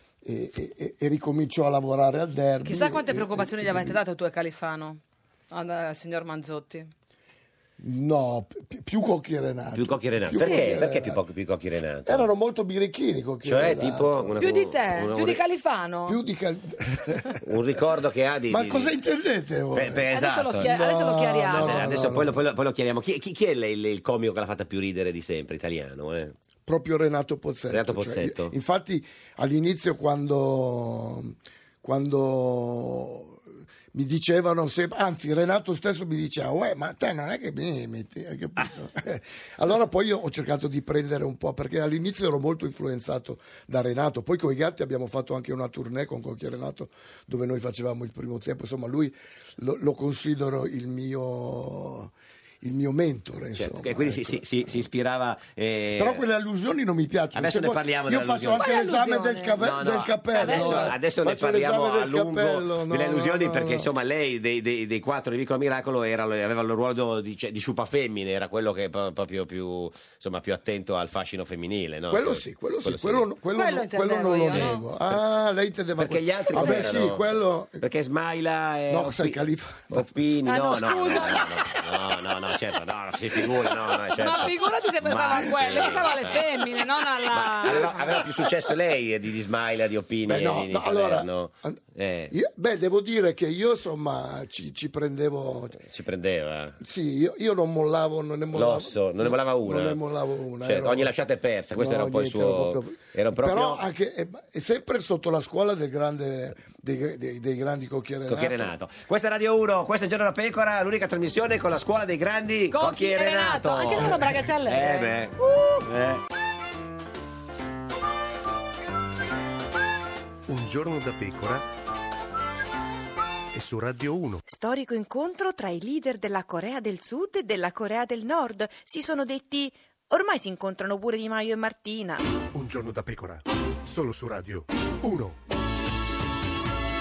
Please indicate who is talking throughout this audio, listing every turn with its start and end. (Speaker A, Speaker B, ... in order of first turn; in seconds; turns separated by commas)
Speaker A: 0.2-4.0, Speaker B: 2.6-6.9, Speaker A: 7.8-11.2, Speaker C: 9.8-12.3, Speaker B: 10.4-10.8, Speaker A: 12.1-14.3, Speaker C: 13.4-15.4, Speaker B: 14.4-16.2, Speaker A: 16.1-17.5, Speaker C: 17.4-18.9, Speaker A: 18.5-22.4, Speaker C: 19.7-20.7, Speaker B: 20.1-22.0, Speaker C: 21.5-26.3, Speaker A: 26.7-54.5, Speaker C: 27.7-28.5, Speaker C: 53.5-56.2, Speaker A: 56.0-63.9, Speaker C: 57.3-58.7, Speaker B: 58.6-59.6, Speaker C: 59.6-73.3, Speaker B: 60.3-60.9, Speaker A: 72.1-77.8, Speaker B: 73.5-74.8, Speaker C: 74.5-75.2, Speaker C: 76.0-79.4, Speaker B: 76.5-76.9, Speaker A: 78.9-80.1, Speaker C: 79.9-86.5, Speaker B: 80.5-81.6, Speaker B: 84.2-88.0, Speaker C: 87.3-92.3, Speaker A: 87.6-88.7, Speaker A: 90.3-91.8, Speaker A: 92.3-95.8, Speaker C: 95.8-96.8, Speaker A: 96.8-101.1, Speaker C: 98.5-100.0, Speaker C: 100.6-103.8, Speaker A: 101.7-108.7, Speaker C: 108.3-116.2, Speaker B: 112.7-115.8, Speaker D: 120.5-121.7, Speaker D: 123.5-124.4, Speaker E: 124.5-132.2, Speaker D: 132.5-135.4